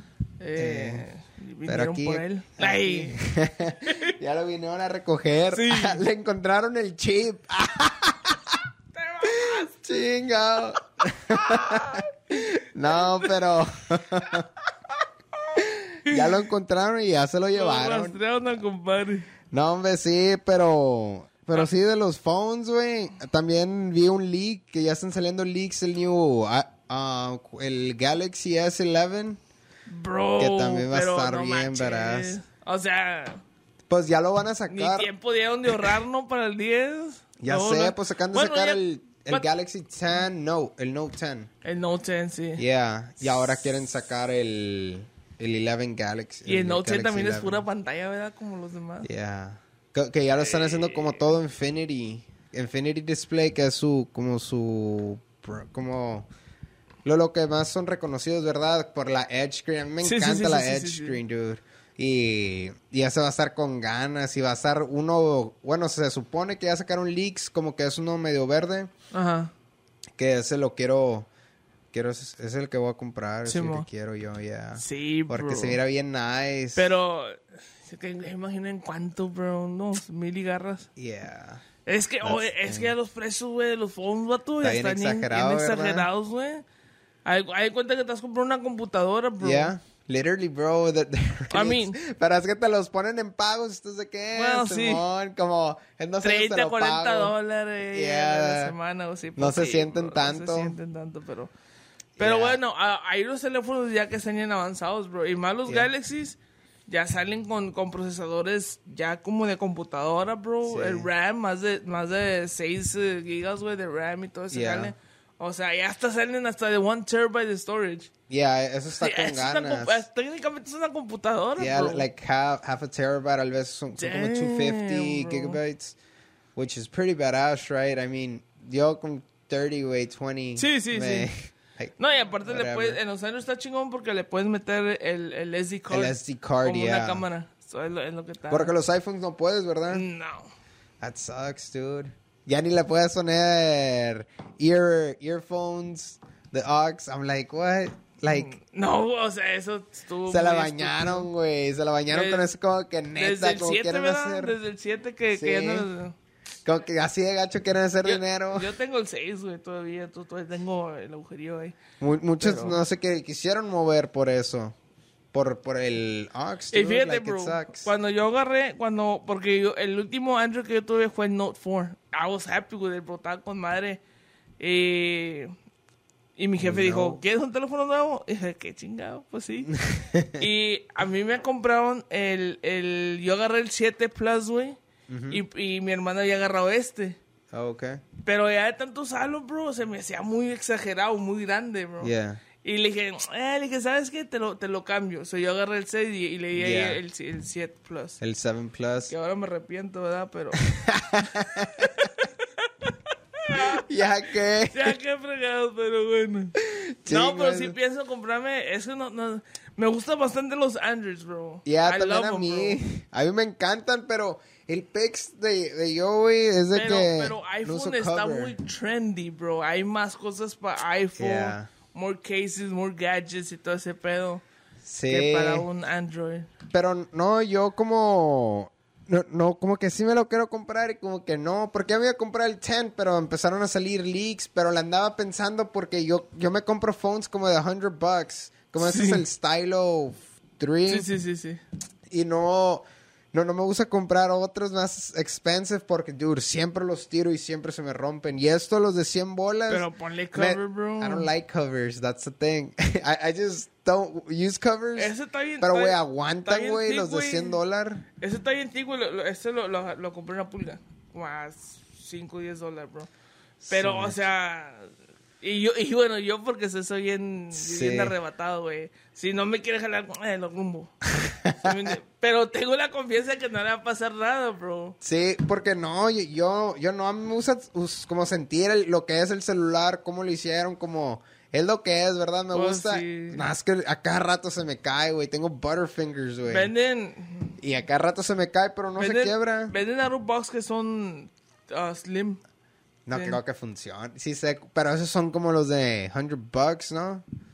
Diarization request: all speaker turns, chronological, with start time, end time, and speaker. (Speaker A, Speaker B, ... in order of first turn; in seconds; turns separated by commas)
Speaker A: 0.4-3.2, Speaker B: 0.6-1.1, Speaker B: 1.7-8.6, Speaker A: 3.8-4.2, Speaker A: 5.5-6.0, Speaker A: 8.9-9.8, Speaker B: 9.5-14.5, Speaker A: 11.3-12.1, Speaker A: 12.9-13.3, Speaker A: 16.1-16.3, Speaker B: 16.1-18.2, Speaker A: 17.5-19.3, Speaker B: 19.5-29.4, Speaker A: 29.9-33.4, Speaker B: 30.4-32.4, Speaker B: 33.9-35.1, Speaker A: 34.7-39.5, Speaker B: 37.4-41.5, Speaker A: 41.6-42.6, Speaker B: 42.6-47.6, Speaker A: 46.5-49.1, Speaker B: 49.0-56.3, Speaker A: 50.4-51.2, Speaker B: 57.0-68.9, Speaker A: 60.0-61.2, Speaker A: 69.1-69.5, Speaker B: 70.2-71.3, Speaker B: 71.9-76.9, Speaker A: 73.5-73.9, Speaker A: 74.8-75.8, Speaker A: 76.8-80.9, Speaker B: 81.0-81.6, Speaker A: 81.8-86.6, Speaker B: 82.2-82.9, Speaker B: 84.6-86.1, Speaker A: 87.3-89.7, Speaker B: 89.4-97.4, Speaker A: 91.5-92.0, Speaker A: 94.3-95.0, Speaker A: 96.2-101.5, Speaker B: 97.9-98.8, Speaker B: 99.4-100.8, Speaker B: 102.2-102.6, Speaker A: 102.2-118.1, Speaker B: 110.6-111.1, Speaker B: 114.5-114.9, Speaker B: 118.3-120.0, Speaker A: 119.0-122.1, Speaker B: 121.6-126.0, Speaker A: 124.0-125.6, Speaker B: 126.6-133.0, Speaker A: 130.6-131.3, Speaker A: 132.0-138.7, Speaker B: 135.9-137.3, Speaker B: 138.5-140.1, Speaker A: 139.9-140.5, Speaker B: 141.0-148.6, Speaker A: 148.3-151.3, Speaker B: 150.3-154.6, Speaker A: 152.1-152.5, Speaker A: 153.2-156.2, Speaker B: 155.3-155.9, Speaker B: 156.7-158.7, Speaker A: 158.0-161.8, Speaker B: 162.0-164.8, Speaker A: 162.4-162.8, Speaker B: 165.3-167.9, Speaker A: 166.7-174.0, Speaker A: 174.6-175.5, Speaker A: 176.4-179.8, Speaker B: 176.6-177.2, Speaker B: 179.8-180.5, Speaker A: 180.3-184.8, Speaker B: 185.1-185.4, Speaker A: 185.3-187.2, Speaker B: 187.5-188.0, Speaker A: 188.2-198.2, Speaker B: 192.0-192.4, Speaker B: 196.6-197.0, Speaker B: 198.2-199.1, Speaker A: 199.1-200.7, Speaker B: 200.7-202.1, Speaker A: 201.3-203.8, Speaker B: 203.5-205.0, Speaker A: 204.7-212.8, Speaker B: 206.6-207.8, Speaker B: 211.7-218.5, Speaker A: 216.7-224.4, Speaker B: 221.2-221.7, Speaker B: 224.8-225.7, Speaker A: 225.1-226.5, Speaker B: 226.7-241.1, Speaker A: 238.8-239.2, Speaker A: 240.9-241.6, Speaker B: 242.1-258.0, Speaker A: 249.7-251.3, Speaker A: 255.0-257.6, Speaker A: 258.2-263.1, Speaker B: 263.7-264.2, Speaker A: 263.7-264.9, Speaker A: 265.4-270.9, Speaker B: 267.5-268.1, Speaker B: 271.2-272.0, Speaker A: 271.4-275.0, Speaker B: 275.0-286.7, Speaker A: 282.5-283.5, Speaker A: 286.5-287.6, Speaker B: 287.6-289.7, Speaker A: 289.0-292.4, Speaker B: 293.1-297.2, Speaker A: 293.1-293.4